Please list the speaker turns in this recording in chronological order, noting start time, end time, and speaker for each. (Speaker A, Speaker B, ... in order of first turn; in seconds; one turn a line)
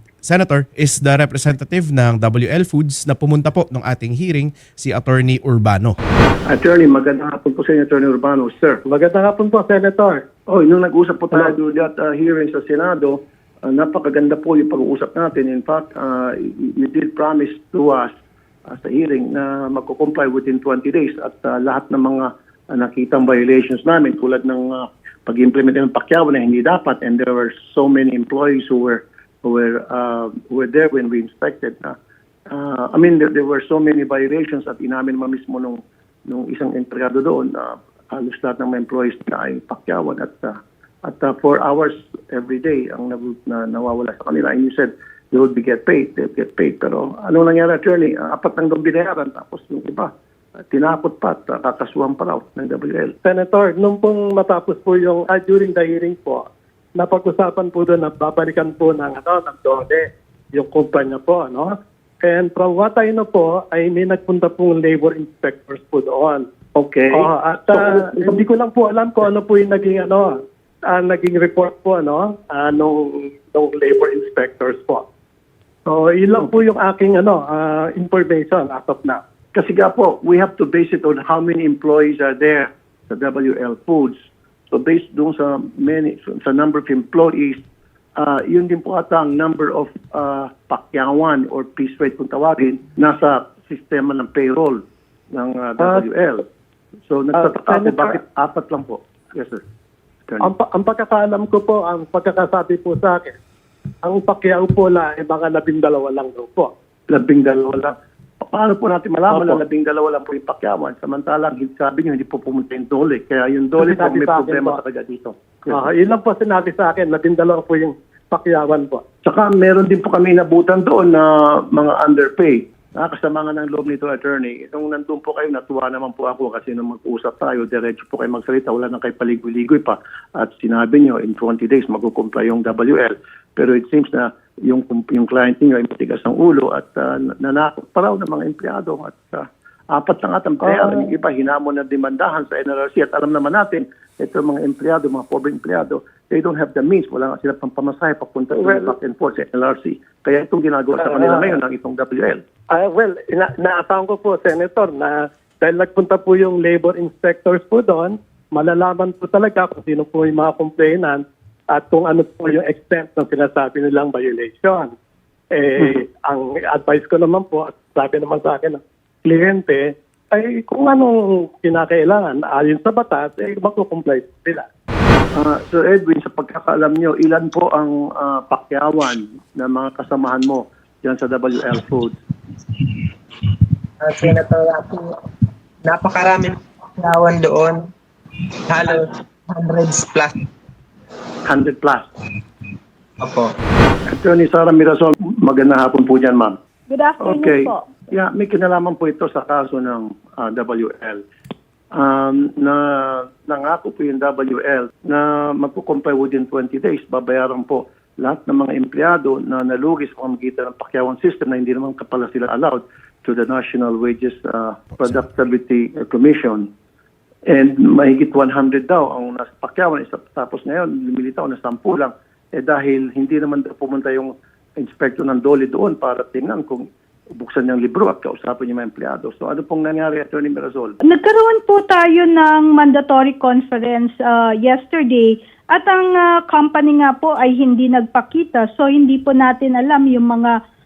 Speaker A: 0.2-6.0
Speaker B: 6.5-8.8
Speaker C: 8.9-10.2
Speaker B: 10.5-18.1
Speaker B: 18.7-32.0
Speaker B: 32.5-50.1
Speaker B: 50.7-53.1
Speaker C: 53.2-56.5
Speaker C: 57.0-66.5
Speaker B: 66.8-68.4
Speaker C: 67.1-75.0
Speaker C: 75.9-79.2
Speaker B: 79.5-84.2
Speaker B: 84.7-87.6
Speaker B: 88.2-94.8
Speaker B: 95.3-96.4
Speaker C: 95.8-96.0
Speaker B: 97.1-99.6
Speaker C: 97.3-98.2
Speaker C: 100.4-103.4
Speaker C: 104.0-106.7
Speaker B: 107.1-115.8
Speaker C: 109.3-109.6
Speaker C: 113.8-114.8
Speaker C: 115.7-119.0
Speaker B: 119.2-152.4
Speaker C: 140.7-141.0
Speaker C: 148.6-148.9
Speaker C: 151.0-151.6
Speaker C: 152.7-164.9
Speaker C: 165.5-174.7
Speaker B: 175.3-182.2
Speaker D: 184.0-185.2
Speaker D: 185.8-187.9
Speaker D: 188.7-190.4
Speaker B: 191.5-192.0
Speaker D: 193.2-193.5
Speaker B: 194.1-196.6
Speaker E: 196.9-197.9
Speaker B: 197.2-201.2
Speaker B: 201.9-216.7
Speaker A: 214.9-215.2
Speaker B: 217.5-231.0
Speaker E: 231.1-240.5